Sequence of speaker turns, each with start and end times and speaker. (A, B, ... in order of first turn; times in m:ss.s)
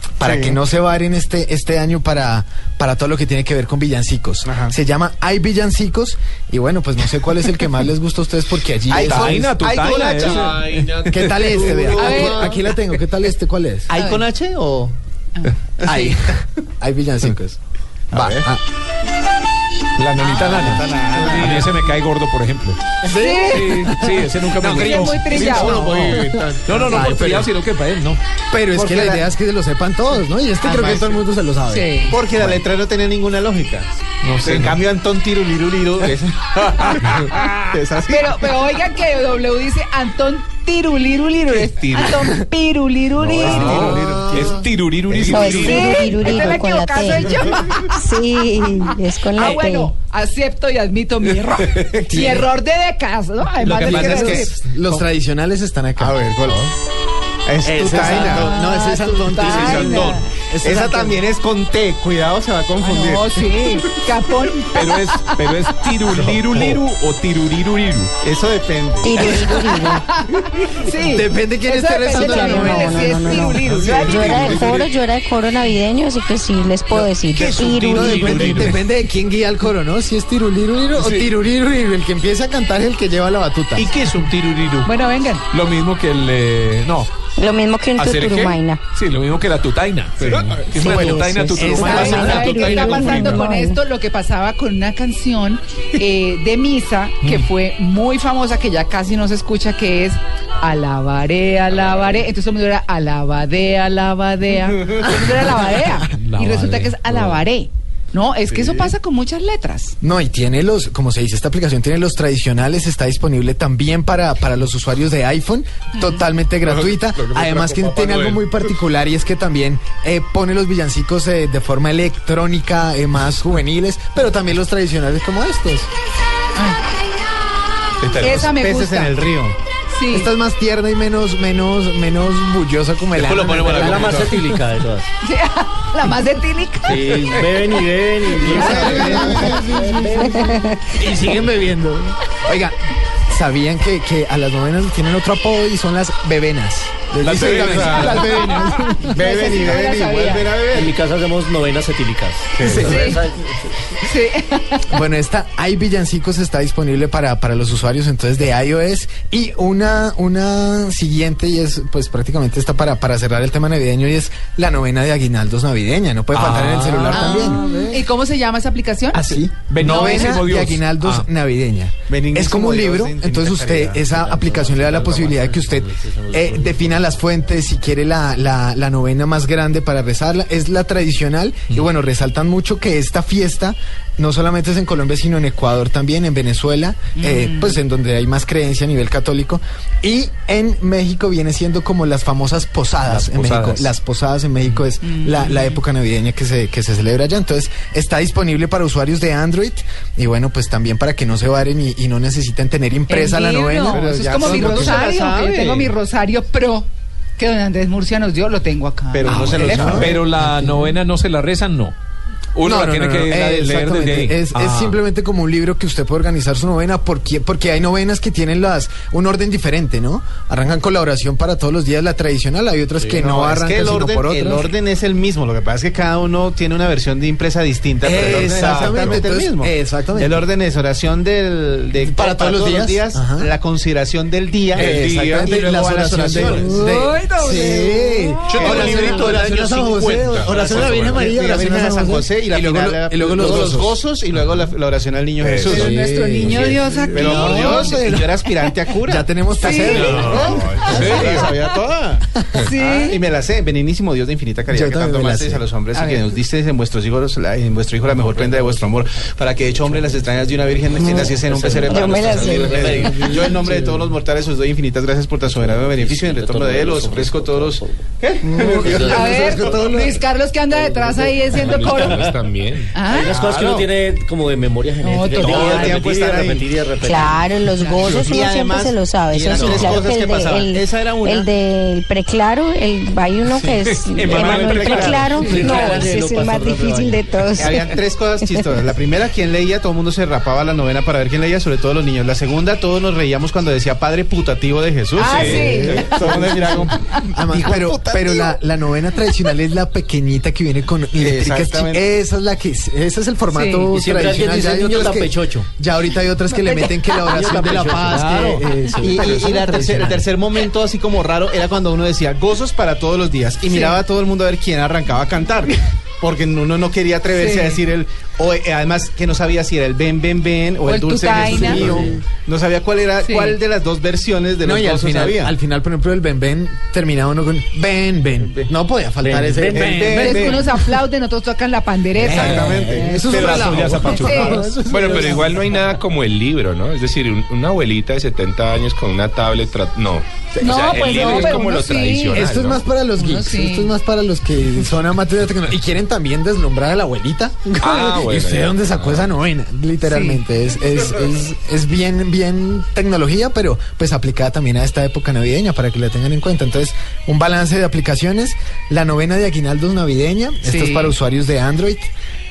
0:00.2-0:09.5 A
0:00.2-0:00.6 B
0:04.4-0:04.7 B
0:08.9-0:12.6 B
0:08.9-0:10.6 C
0:10.6-0:13.9 A
0:11.9-0:12.6 D
0:13.9-0:15.0 B
0:13.9-0:14.2 D
0:15.8-0:16.1 B
0:15.8-0:17.6 A
0:18.1-0:18.4 B
0:18.1-0:18.6 A
0:20.0-0:22.8 C
0:20.2-0:21.8 B
0:23.0-0:27.5 A
0:23.1-0:23.8 D
0:23.5-0:25.7 C
0:24.6-0:25.8 D
0:25.7-0:26.9 B
0:26.6-0:28.2 C
0:28.5-0:32.5 A
0:28.7-0:29.2 B
0:30.6-0:31.2 B
0:31.7-0:32.1 D
0:32.1-0:33.9 B
0:34.2-0:34.8 C
0:34.4-0:38.5 B
0:36.8-0:37.6 C
0:38.1-0:43.9 D
0:41.5-0:42.2 C
0:43.2-0:44.6 B
0:43.3-0:46.6 C
0:44.0-0:44.3 A
0:45.2-0:49.9 E
0:45.4-0:48.0 D
0:49.3-0:54.5 D
0:52.1-0:52.5 A
0:53.6-0:55.0 B
0:53.7-0:56.6 A
0:56.0-0:56.7 B
0:57.4-0:58.5 B
0:57.6-1:00.2 A
0:57.9-1:01.2 D
0:59.3-1:03.6 B
1:02.8-1:05.5 D
1:04.7-1:08.1 C
1:06.2-1:06.8 B
1:08.2-1:09.3 B
1:09.0-1:10.0 E
1:09.3-1:14.6 D
1:11.0-1:14.6 A
1:12.1-1:18.3 E
1:13.6-1:14.9 B
1:13.7-1:14.8 C
1:17.0-1:18.7 B
1:17.9-1:23.9 A
1:18.2-1:18.8 C
1:21.0-1:21.3 C
1:23.8-1:24.9 B
1:24.8-1:25.4 D
1:25.5-1:27.1 C
1:27.4-1:28.8 E
1:28.0-1:32.5 C
1:30.2-1:30.9 B
1:30.7-1:33.1 A
1:31.7-1:49.9 D
1:31.8-1:33.2 B
1:32.2-1:33.8 E
1:33.1-1:33.4 C
1:46.1-1:47.4 C
1:48.5-1:48.9 B
1:50.0-2:05.9 A
2:08.0-2:09.6 B
2:08.1-2:09.2 D
2:09.9-2:10.3 D
2:10.1-2:14.6 A
2:13.1-2:15.1 F
2:13.6-2:14.3 B
2:15.2-2:17.0 D
2:16.8-2:21.5 F
2:17.0-2:17.4 C
2:18.4-2:22.7 A
2:18.5-2:19.5 D
2:18.6-2:19.1 C
2:20.3-2:20.8 E
2:23.3-2:29.2 A
2:27.2-2:28.9 C
2:27.3-2:28.2 B
2:29.1-2:30.9 B
2:29.2-2:30.5 D
2:30.7-2:33.8 F
2:32.6-2:32.9 B
2:32.6-2:33.0 C
2:32.7-2:33.2 D
2:34.0-2:34.9 D
2:34.9-2:48.1 A
2:46.3-2:47.8 C
2:47.1-2:49.2 D
2:49.1-3:25.0 A
2:49.7-2:51.3 C
2:49.8-2:50.3 D
2:52.1-2:54.1 B
2:54.1-2:57.6 F
3:07.2-3:07.8 D
3:13.1-3:13.9 C
3:15.0-3:15.8 D
3:23.1-3:26.9 D
3:23.8-3:25.9 B
3:27.4-3:30.1 D
3:29.1-3:30.1 B
3:29.2-3:30.9 A
3:29.6-3:31.9 C
3:32.5-3:35.0 C
3:32.6-3:44.7 A
3:43.0-3:43.2 F
3:43.2-3:56.6 B
3:48.0-3:50.5 A
3:52.0-3:53.5 A
3:54.7-3:55.5 C
3:54.7-4:04.0 A
3:56.3-3:56.6 C
3:56.5-3:59.3 D
3:58.5-4:00.9 C
3:58.5-4:09.3 B
4:05.5-4:08.1 D
4:05.6-4:08.4 A
4:09.0-4:11.5 A
4:09.6-4:11.7 D
4:09.8-4:12.2 B
4:12.3-4:12.6 A
4:12.6-4:13.2 D
4:12.8-4:29.9 B
4:14.7-4:15.6 A
4:15.9-4:16.3 D
4:18.2-4:19.0 F
4:19.8-4:24.1 F
4:21.9-4:23.2 E
4:25.4-4:28.0 F
4:28.4-4:30.2 A
4:28.6-4:29.7 F
4:29.1-4:33.3 D
4:30.7-4:32.2 F
4:31.6-4:32.9 G
4:33.0-4:37.7 F
4:33.2-4:33.9 B
4:35.0-4:36.1 D
4:35.4-4:36.7 B
4:37.0-4:47.8 E
4:37.8-4:38.1 D
4:38.0-4:41.5 B
4:39.4-4:39.9 F
4:43.5-4:45.8 C
4:44.2-4:45.6 B
4:44.4-4:47.4 F
4:47.5-4:57.0 B
4:55.2-4:56.2 D
4:55.2-4:56.5 G
4:57.3-5:10.3 A
4:57.5-4:58.5 B
5:01.2-5:02.0 B
5:03.5-5:03.9 D
5:03.9-5:05.7 F
5:06.6-5:07.0 D
5:07.2-5:09.0 F
5:08.1-5:08.5 B
5:09.0-5:25.5 B
5:13.7-5:14.0 D
5:17.3-5:17.8 D
5:20.8-5:21.8 D
5:21.4-5:22.2 A
5:21.6-5:22.1 F
5:23.2-5:23.6 D
5:24.6-5:30.9 A
5:29.2-5:30.1 F
5:29.7-5:30.6 B
5:30.0-5:34.6 D
5:32.2-5:35.3 B
5:32.2-5:35.5 A
5:32.6-5:33.2 F
5:34.9-5:42.9 G
5:40.6-5:42.5 D
5:42.3-6:02.1 A
5:43.2-5:43.9 D
5:47.8-5:49.3 G
5:50.0-5:50.4 D
6:00.6-6:01.1 D